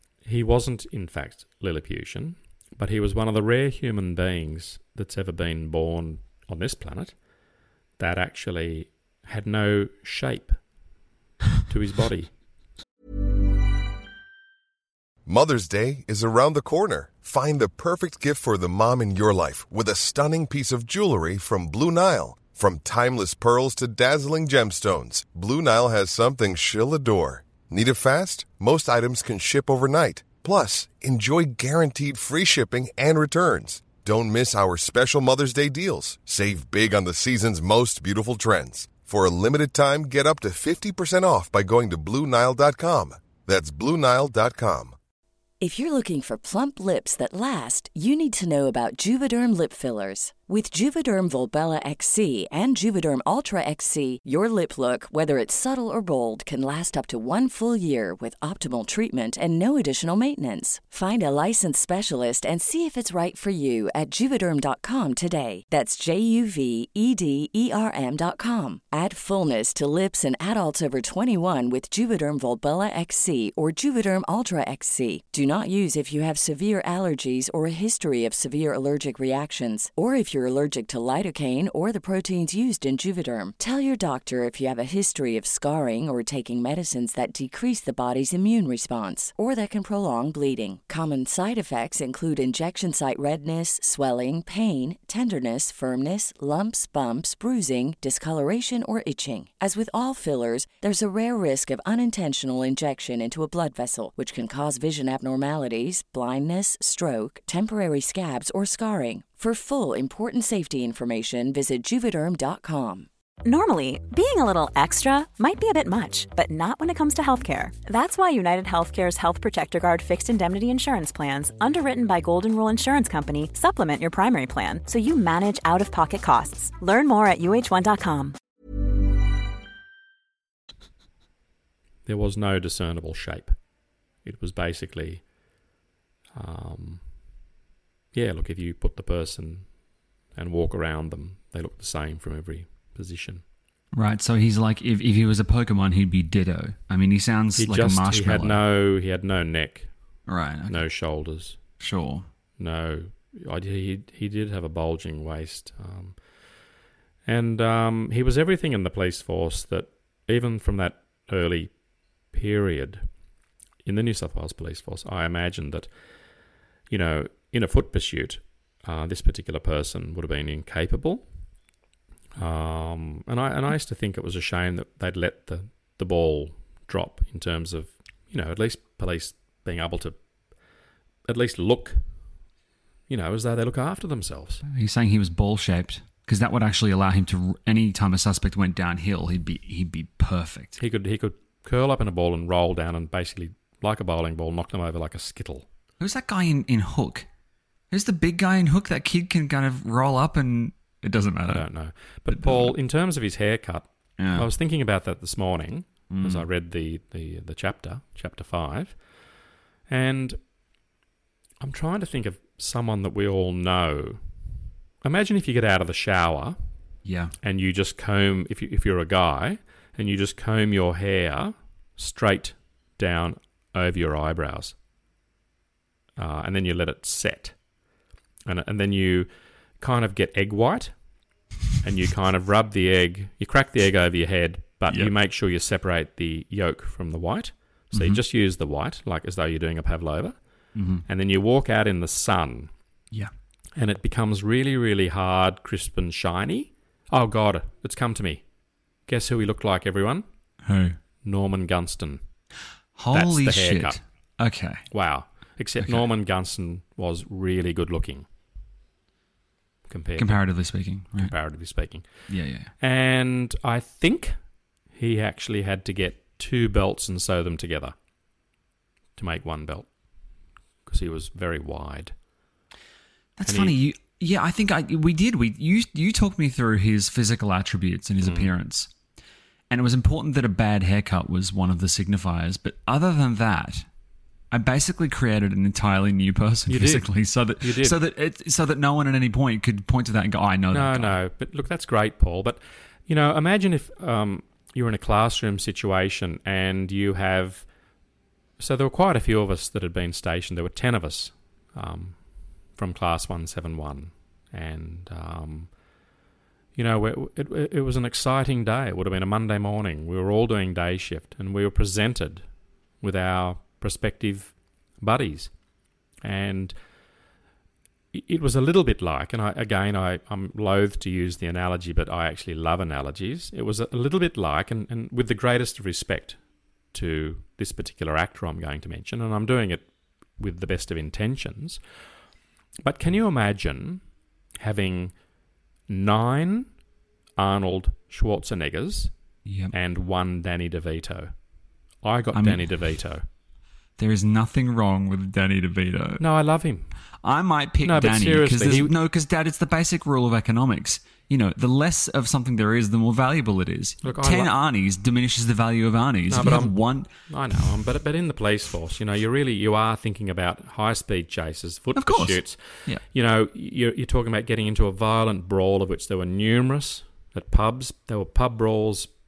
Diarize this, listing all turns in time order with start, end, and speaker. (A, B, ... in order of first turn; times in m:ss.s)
0:00.2-0:07.2 A
0:08.0-0:10.6 A
0:11.6-0:12.4 A
0:15.3-0:45.0 B
0:45.6-1:53.1 C
1:53.5-2:08.4 D
2:12.1-2:13.6 A
2:14.2-2:15.3 A
2:16.3-2:17.1 A
2:18.1-2:19.8 A
2:20.3-2:23.4 A
2:23.9-2:28.6 E
2:27.6-2:29.9 A
2:30.3-2:30.8 E
2:30.7-2:31.6 A
2:31.8-2:32.3 E
2:32.6-2:36.2 A
2:37.3-2:41.8 A
2:42.3-2:43.1 A
2:43.8-2:45.9 A
2:46.9-2:51.3 A
2:52.4-3:00.2 A
3:01.3-3:02.3 A
3:03.1-3:04.6 A
3:04.7-3:10.8 E
3:10.8-3:15.7 A
3:16.0-3:17.3 E
3:17.9-3:21.7 E
3:21.5-3:29.2 A
3:22.3-3:22.7 E
3:24.2-3:24.5 E
3:26.1-3:26.5 E
3:29.9-3:30.4 A
3:31.6-3:34.2 A
3:35.0-3:36.6 A
3:37.0-3:37.3 E
3:37.4-3:44.8 A
3:46.2-3:47.6 A
3:48.4-3:51.1 A
3:51.8-4:00.4 A
3:57.9-3:58.2 E
4:00.8-4:01.0 E
4:01.0-4:02.7 A
4:03.8-4:08.5 A
4:09.1-4:10.2 A
4:10.7-4:11.0 E
4:11.2-4:12.2 A
4:13.0-4:14.9 E
4:13.1-4:14.0 A
4:14.9-4:18.3 A
4:15.8-4:16.0 E
4:19.9-4:22.2 A
4:20.2-4:21.4 E
4:22.3-4:22.7 E
4:22.8-4:24.4 A
4:24.9-4:28.0 A
4:29.2-4:29.9 A
4:30.9-4:32.2 A
4:33.4-4:38.9 E
4:33.4-4:33.8 A
4:38.2-4:38.5 A
4:39.7-4:43.9 E
4:44.5-4:51.2 E
4:46.7-4:48.0 A
4:50.7-4:57.7 A
4:58.6-5:05.8 A
5:06.8-5:12.5 A
5:13.0-5:15.6 A
5:16.2-5:16.8 A
5:18.1-5:31.8 A
5:32.8-5:34.0 A
5:34.6-5:35.2 A
5:35.9-5:36.7 A
5:37.4-5:39.1 A
5:39.5-5:39.7 E
5:39.7-5:41.3 A
5:42.0-5:43.2 A
5:42.3-5:42.7 E
5:44.0-5:46.2 E
5:46.2-5:47.0 A
5:47.2-5:57.1 E
5:47.8-5:48.9 A
5:54.0-5:54.5 A
5:56.3-6:09.1 A
6:01.9-6:03.0 E